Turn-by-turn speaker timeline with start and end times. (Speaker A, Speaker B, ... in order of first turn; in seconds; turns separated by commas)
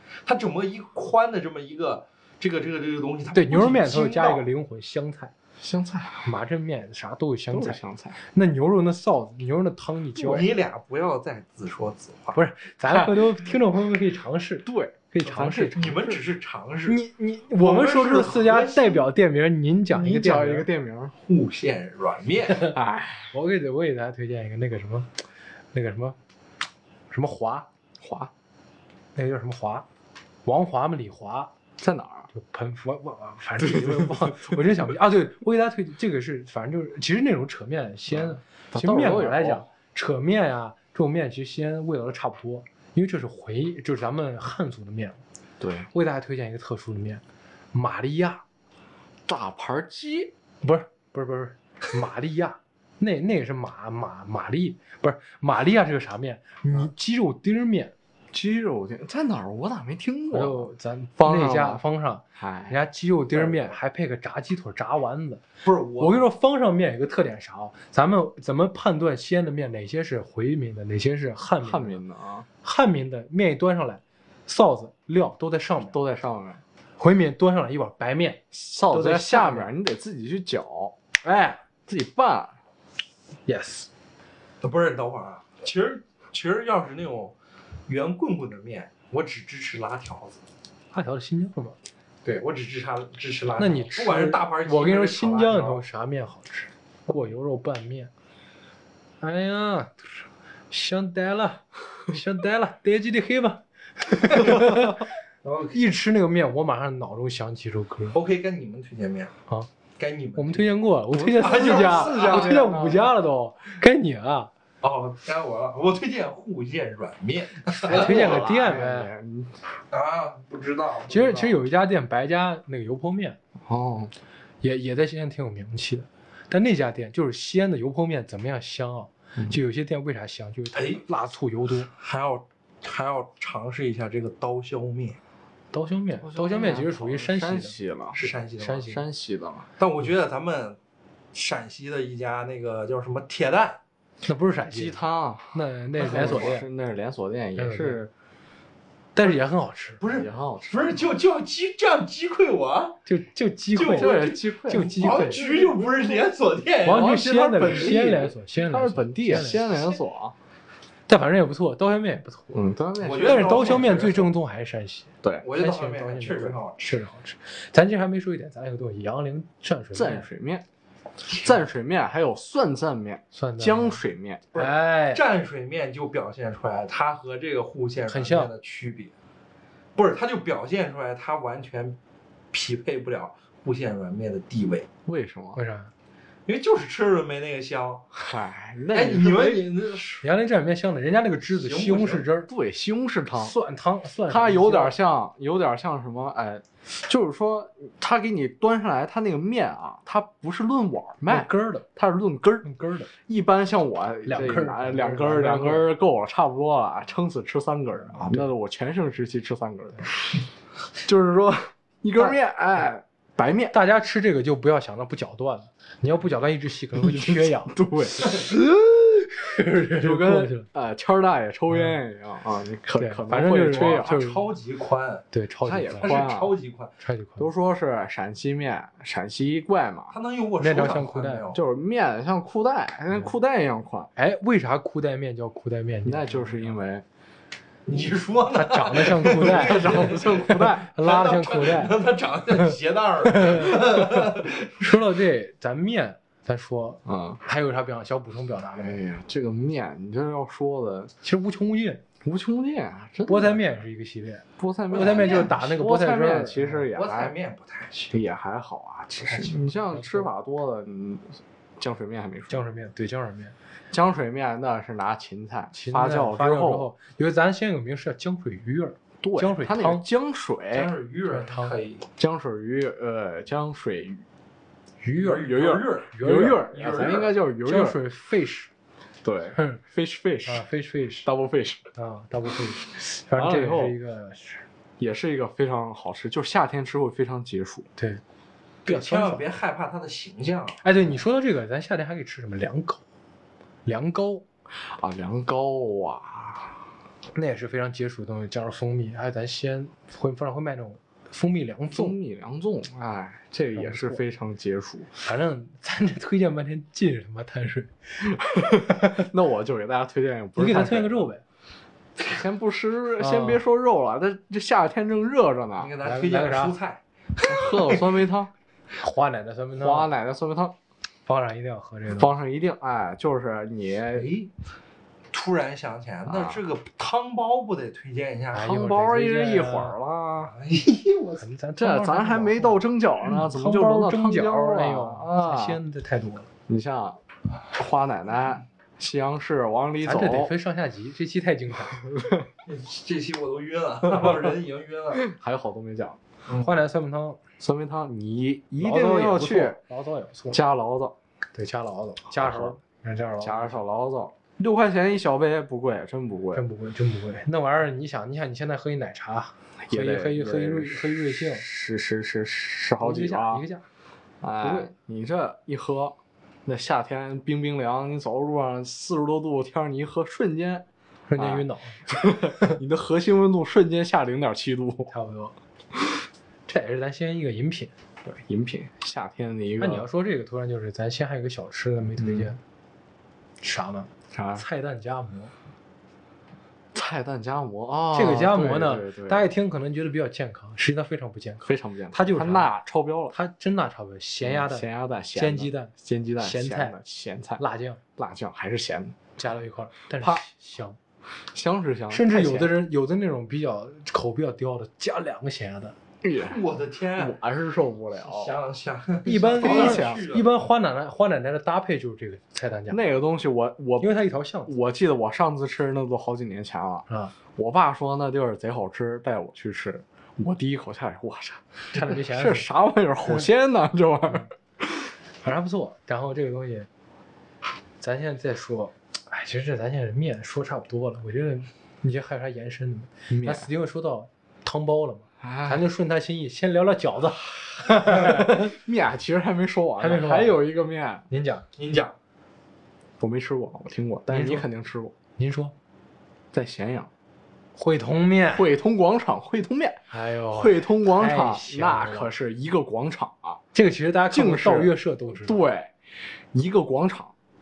Speaker A: 0.2-4.5, Speaker B: 3.3-5.3, Speaker C: 5.6-6.3, Speaker B: 6.2-7.8, Speaker C: 7.5-8.2, Speaker B: 8.3-10.5, Speaker A: 10.2-12.4, Speaker B: 12.3-15.8, Speaker C: 12.9-13.3, Speaker C: 14.6-16.2, Speaker A: 15.7-17.0, Speaker B: 16.9-20.7, Speaker A: 17.6-19.1, Speaker C: 19.9-21.1, Speaker A: 21.2-22.7, Speaker C: 22.6-23.3, Speaker B: 23.3-25.1, Speaker B: 25.7-26.2, Speaker B: 27.1-27.7, Speaker C: 28.0-28.3, Speaker B: 29.1-29.9, Speaker B: 30.4-31.5, Speaker C: 31.8-32.3, Speaker B: 32.3-45.2, Speaker C: 33.6-34.5, Speaker C: 38.1-39.6, Speaker C: 45.6-45.9, Speaker B: 45.9-47.2, Speaker B: 47.7-48.4, Speaker C: 49.3-50.3, Speaker B: 50.6-57.9, Speaker C: 58.3-61.8, Speaker B: 60.3-65.4, Speaker C: 62.4-62.8, Speaker A: 65.6-66.2, Speaker B: 66.0-72.0, Speaker C: 71.6-72.5, Speaker B: 72.6-76.0, Speaker C: 75.9-76.6, Speaker B: 77.0-79.7, Speaker C: 78.5-80.9, Speaker B: 81.2-81.6, Speaker C: 81.9-82.5, Speaker B: 83.5-83.9, Speaker A: 84.6-87.3, Speaker A: 87.9-90.4, Speaker B: 90.9-91.8, Speaker A: 92.2-95.8, Speaker B: 93.6-98.1, Speaker B: 99.2-105.0, Speaker A: 105.4-105.8, Speaker B: 105.7-108.2, Speaker A: 108.1-109.3, Speaker A: 110.0-110.7, Speaker B: 110.3-114.5, Speaker C: 111.1-113.0, Speaker A: 111.4-112.9, Speaker A: 114.8-118.5, Speaker B: 117.8-119.1, Speaker C: 117.8-119.5, Speaker A: 119.9-121.6, Speaker B: 121.1-123.4, Speaker C: 123.7-124.1, Speaker B: 124.6-131.9, Speaker A: 130.7-131.0, Speaker A: 131.9-135.2, Speaker B: 135.7-137.7, Speaker C: 136.2-138.2, Speaker A: 138.1-138.9, Speaker B: 138.6-139.0, Speaker C: 138.8-139.7, Speaker A: 139.8-140.8, Speaker A: 141.3-143.8, Speaker B: 144.2-145.0, Speaker C: 144.7-148.1, Speaker B: 145.5-146.7, Speaker A: 146.1-146.5, Speaker B: 147.6-148.1, Speaker B: 149.1-150.0, Speaker A: 150.0-153.0, Speaker C: 150.0-151.0, Speaker B: 153.1-155.4, Speaker A: 153.7-158.0, Speaker C: 153.8-156.3, Speaker B: 156.8-159.9, Speaker C: 156.9-160.3, Speaker B: 161.1-162.5, Speaker C: 162.5-164.1, Speaker A: 163.0-164.3, Speaker B: 163.2-170.3, Speaker A: 165.4-166.8, Speaker C: 169.9-170.6, Speaker C: 171.3-174.5, Speaker B: 173.3-174.0, Speaker A: 174.5-179.1, Speaker B: 174.5-175.2, Speaker B: 178.1-178.5, Speaker A: 179.9-182.0, Speaker A: 182.5-184.9, Speaker C: 185.1-185.6, Speaker B: 185.5-185.9, Speaker A: 186.4-188.1, Speaker C: 188.1-189.7, Speaker A: 188.9-190.2, Speaker B: 190.2-192.5, Speaker A: 191.5-192.3, Speaker C: 192.5-193.6, Speaker B: 193.4-194.9, Speaker C: 194.3-210.4, Speaker B: 201.3-201.8, Speaker B: 202.6-203.1, Speaker B: 204.2-205.9, Speaker B: 208.2-208.5, Speaker C: 211.0-213.8, Speaker B: 213.7-220.7, Speaker C: 216.9-218.3, Speaker C: 219.9-224.2, Speaker B: 221.7-222.0, Speaker B: 222.9-224.5, Speaker A: 223.7-225.2, Speaker B: 225.3-226.2, Speaker C: 225.6-226.5, Speaker A: 226.0-226.9, Speaker B: 227.0-227.5, Speaker C: 227.4-230.1, Speaker A: 230.1-231.6, Speaker B: 230.6-231.4, Speaker C: 231.5-234.1, Speaker B: 234.2-236.8, Speaker C: 236.0-237.0, Speaker A: 237.8-244.8, Speaker B: 238.5-241.9, Speaker C: 239.2-240.9, Speaker B: 243.2-244.3, Speaker B: 244.8-249.0, Speaker C: 247.0-247.4, Speaker C: 248.8-251.1, Speaker B: 251.2-252.0, Speaker C: 252.2-253.6, Speaker B: 253.3-256.9, Speaker C: 254.6-257.4, Speaker A: 254.9-255.5, Speaker A: 256.9-258.2, Speaker C: 258.1-262.6, Speaker B: 259.2-260.3, Speaker B: 262.5-263.5, Speaker C: 263.9-266.9, Speaker B: 265.7-270.1, Speaker C: 269.2-270.9, Speaker A: 270.7-272.1, Speaker B: 271.3-271.8, Speaker C: 272.2-274.2, Speaker B: 275.0-276.9, Speaker A: 275.2-276.1, Speaker C: 275.3-278.0, Speaker A: 276.7-277.4, Speaker B: 277.6-278.7, Speaker C: 279.2-280.7, Speaker B: 279.5-279.8, Speaker B: 280.4-281.3, Speaker C: 281.2-281.9, Speaker B: 281.9-284.6, Speaker C: 283.3-284.0, Speaker C: 285.0-287.9, Speaker B: 288.0-288.2, Speaker A: 288.8-290.8, Speaker B: 288.9-289.4, Speaker B: 290.8-293.0, Speaker B: 293.9-294.4, Speaker C: 294.8-296.8, Speaker B: 297.3-302.1, Speaker C: 301.9-305.1, Speaker B: 303.7-304.2, Speaker B: 305.2-309.2, Speaker C: 308.5-311.3, Speaker B: 310.6-311.4, Speaker C: 312.3-315.9, Speaker B: 313.2-313.6, Speaker A: 315.8-318.2, Speaker B: 316.0-316.8, Speaker C: 317.4-318.5, Speaker B: 318.9-320.1, Speaker C: 319.8-320.7, Speaker B: 321.2-322.3, Speaker C: 322.1-324.3, Speaker A: 324.1-324.5, Speaker A: 325.3-328.7, Speaker C: 326.3-326.6, Speaker B: 328.5-330.0, Speaker C: 328.6-330.5, Speaker A: 330.5-331.4, Speaker B: 331.4-336.5, Speaker C: 331.8-335.8, Speaker C: 336.7-337.2, Speaker C: 337.7-340.5, Speaker B: 340.0-342.0, Speaker C: 342.1-342.4, Speaker A: 342.7-345.3, Speaker C: 345.2-346.2, Speaker A: 346.5-346.8, Speaker B: 346.6-347.4, Speaker C: 347.6-349.8, Speaker B: 348.8-350.6, Speaker C: 350.5-351.1, Speaker B: 351.5-353.8, Speaker C: 352.3-352.7, Speaker C: 353.4-356.6, Speaker B: 356.5-361.6, Speaker C: 359.8-363.6, Speaker B: 363.0-363.8, Speaker C: 364.4-375.1, Speaker B: 364.6-364.9, Speaker B: 371.3-372.8, Speaker B: 375.1-375.5, Speaker B: 376.7-377.9, Speaker C: 378.2-380.1, Speaker B: 379.8-382.6, Speaker C: 382.2-382.5, Speaker B: 383.6-385.5, Speaker C: 384.3-384.6, Speaker C: 386.9-389.5, Speaker B: 388.1-392.7, Speaker C: 391.6-393.3, Speaker B: 393.3-396.9, Speaker C: 394.4-397.6, Speaker B: 397.6-398.0, Speaker C: 398.2-399.2, Speaker B: 399.4-401.0, Speaker C: 400.2-400.4, Speaker C: 401.5-402.8, Speaker B: 402.1-405.9, Speaker C: 406.2-406.6, Speaker A: 406.4-407.4, Speaker C: 407.2-408.5, Speaker A: 408.1-410.5, Speaker B: 409.2-413.0, Speaker C: 409.6-410.3, Speaker C: 412.9-425.1, Speaker B: 414.0-414.7, Speaker B: 421.9-422.7, Speaker B: 425.4-426.9, Speaker B: 428.0-438.7, Speaker C: 433.3-433.7, Speaker C: 435.4-435.9, Speaker C: 438.1-441.2, Speaker B: 440.0-440.6, Speaker B: 441.3-441.6, Speaker A: 441.8-442.1, Speaker C: 443.2-445.1, Speaker B: 444.3-444.7, Speaker B: 445.4-445.7, Speaker C: 446.5-447.1, Speaker B: 447.8-448.7, Speaker C: 448.5-453.6, Speaker B: 450.1-452.3, Speaker B: 453.7-455.6, Speaker C: 454.3-455.9, Speaker C: 456.5-457.3